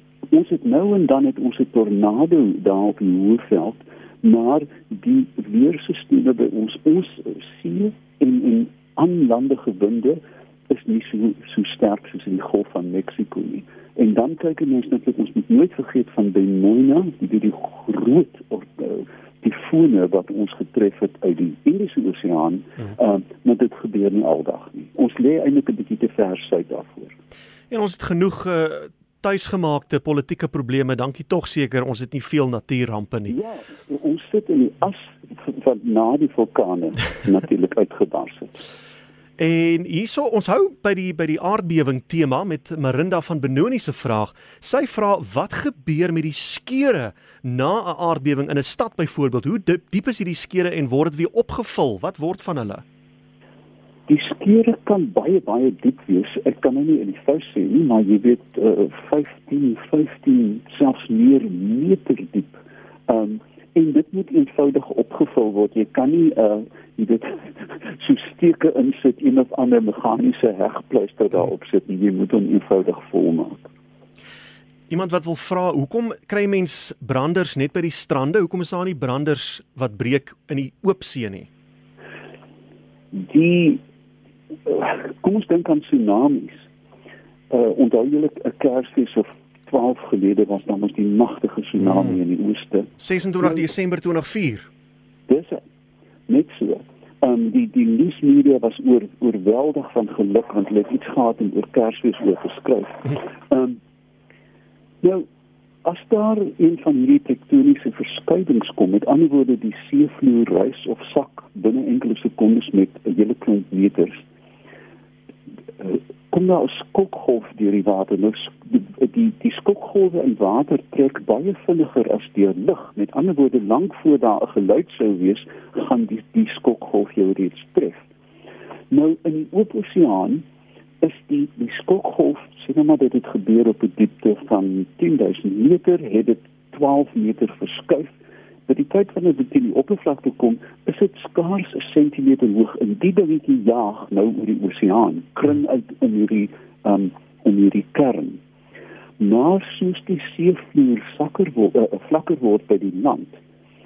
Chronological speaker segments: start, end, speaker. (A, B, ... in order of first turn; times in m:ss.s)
0:00.3-0:27.1 A
0:27.7-0:33.3 B
0:33.3-0:38.6 A
0:39.4-0:52.8 B
0:54.1-1:13.7 A
1:14.9-1:21.5 B
1:23.1-1:23.8 A
1:24.6-1:26.6 A
1:27.5-1:32.9 A
1:33.0-1:34.7 B
1:35.3-1:35.6 A
1:36.3-1:43.8 A
1:45.8-1:54.2 A
1:55.8-2:08.0 A
2:08.9-2:10.4 A
2:11.0-2:18.2 A
2:18.7-2:28.4 A
2:29.2-2:33.4 A